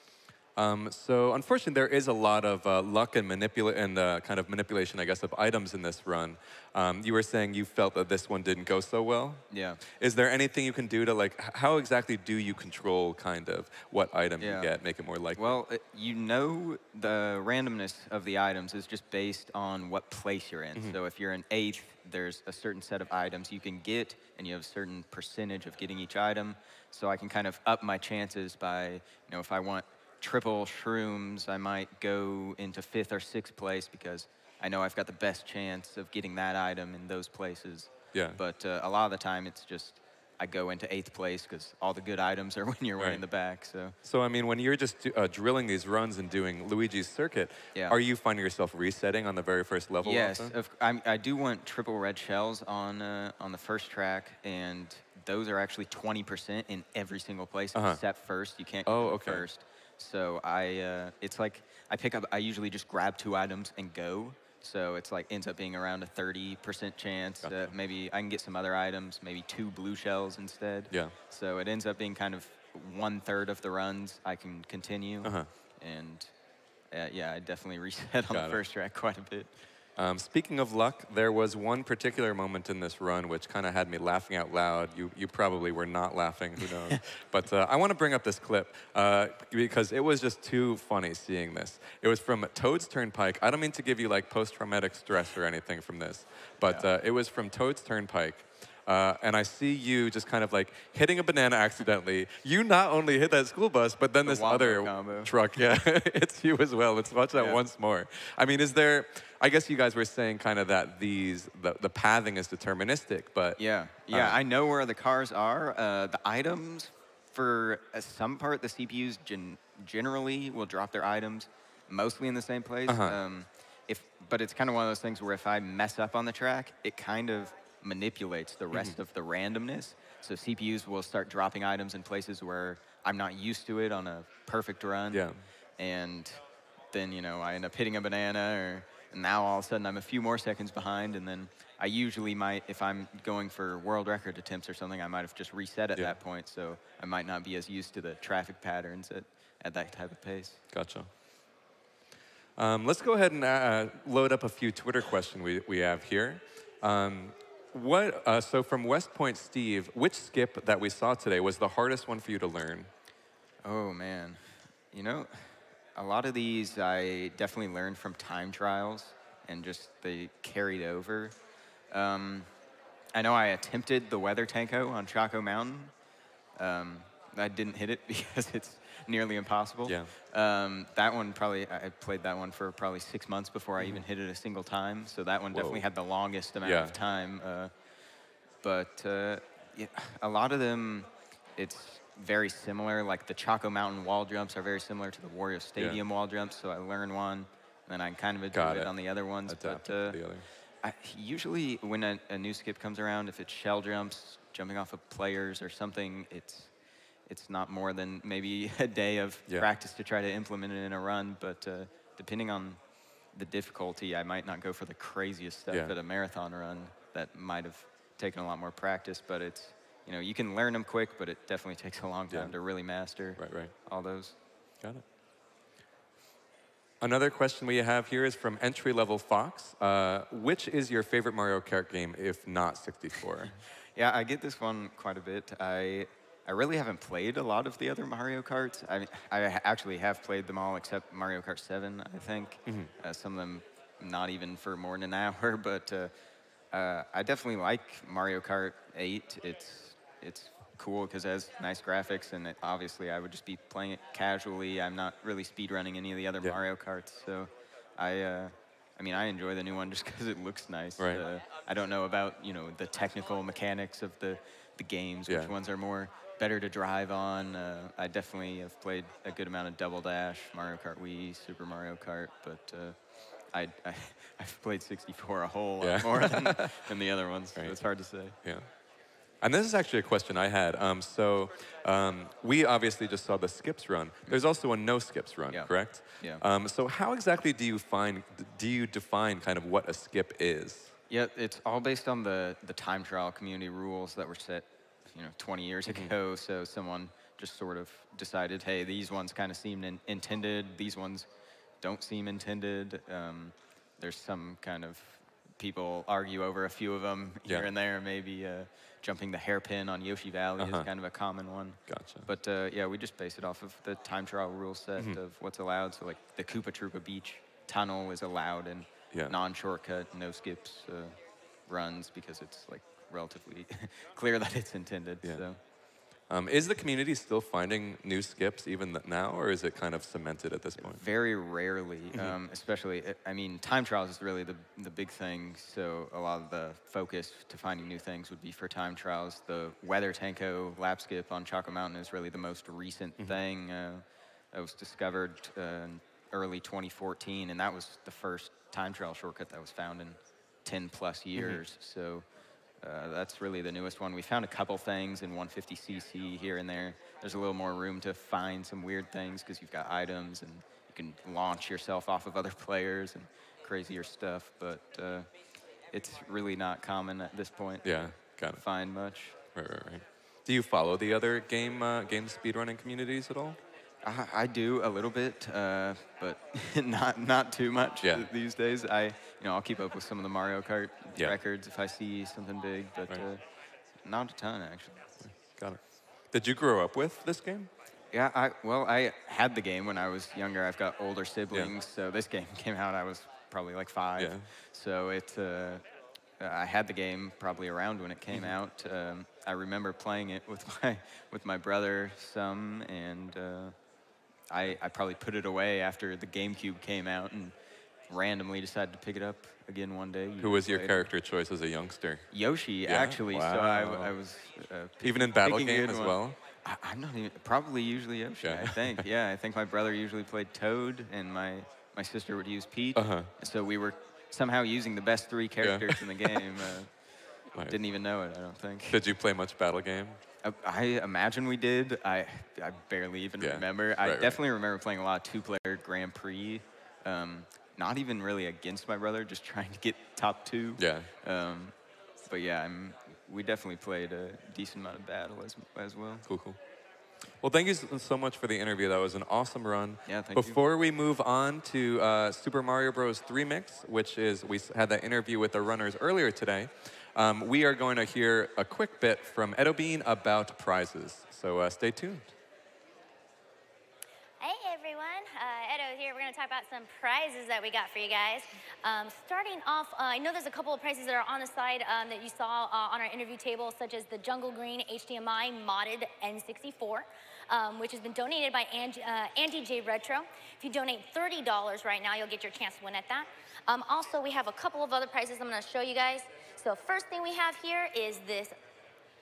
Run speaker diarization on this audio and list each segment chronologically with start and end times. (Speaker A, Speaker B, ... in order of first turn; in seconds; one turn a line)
Speaker A: 0.6-15.6
Speaker B: 9.5-9.8
Speaker B: 14.4-14.7
Speaker B: 15.4-44.0
Speaker A: 38.1-38.4
Speaker A: 43.0-43.2
Speaker A: 44.0-50.5
Speaker B: 50.0-76.3
Speaker A: 57.7-58.0
Speaker A: 58.9-59.5
Speaker A: 67.4-67.7
Speaker A: 70.9-71.2
Speaker A: 75.2-75.5
Speaker B: 76.9-79.5
Speaker A: 78.3-78.6
Speaker A: 80.0-114.4
Speaker B: 104.2-105.3
Speaker B: 107.4-107.6
Speaker B: 113.6-135.3
Speaker A: 122.9-123.2
Speaker A: 128.7-129.0
Speaker A: 135.1-135.4
Speaker B: 135.8-150.6
Speaker A: 150.7-151.1
Speaker A: 152.6-162.9
Speaker B: 163.6-171.4
Speaker B: 171.9-172.5
Speaker B: 173.2-175.9
Speaker B: 176.6-187.7
Speaker A: 179.9-180.1
Speaker A: 185.5-185.9
Speaker A: 186.6-187.0
Speaker B: 188.6-206.7
Speaker A: 195.8-196.0
Speaker A: 198.5-198.9
Speaker A: 199.4-200.5
Speaker B: 207.3-212.8
Speaker B: 213.3-224.3
Speaker A: 215.7-215.9
Speaker A: 223.4-223.7
Speaker A: 227.0-233.6
Speaker B: 234.0-246.1
Speaker A: 242.7-242.9
Speaker B: 246.7-273.0
Speaker A: 261.0-261.2
Speaker A: 265.3-265.5
Speaker B: 273.5-278.4
Speaker A: 275.8-276.8
Speaker A: 278.4-278.7
Speaker A: 279.4-290.9
Speaker B: 285.5-286.4
Speaker B: 291.1-301.3
Speaker A: 295.9-296.1
Speaker B: 301.8-325.6
Speaker A: 310.6-310.9
Speaker A: 311.9-312.3
Speaker A: 319.1-319.4
Speaker A: 326.3-331.0
Speaker B: 330.8-352.3
Speaker A: 351.4-351.6
Speaker B: 352.8-365.3
Speaker B: 365.9-369.4
Speaker A: 367.8-368.6
Speaker A: 369.6-373.6
Speaker B: 374.0-383.4
Speaker A: 378.0-378.3
Speaker B: 384.0-385.1
Speaker A: 385.2-387.7
Speaker B: 388.1-395.9
Speaker A: 394.2-394.5
Speaker B: 396.4-403.8
Speaker B: 404.5-407.6
Speaker B: 408.1-411.1
Speaker A: 410.4-412.3
Speaker B: 412.3-426.9
Speaker A: 412.9-414.1
Speaker A: 415.0-416.4
Speaker A: 418.4-419.0
Speaker A: 422.9-423.3
Speaker A: 425.6-426.4
Speaker B: 427.6-429.0
Speaker A: 428.9-430.2
Speaker B: 430.4-446.2
Speaker A: 433.4-434.4
Speaker A: 440.8-441.1
Speaker A: 446.2-446.6
Speaker A: 447.4-462.3
Speaker B: 450.1-450.6
Speaker C: 464.4-488.6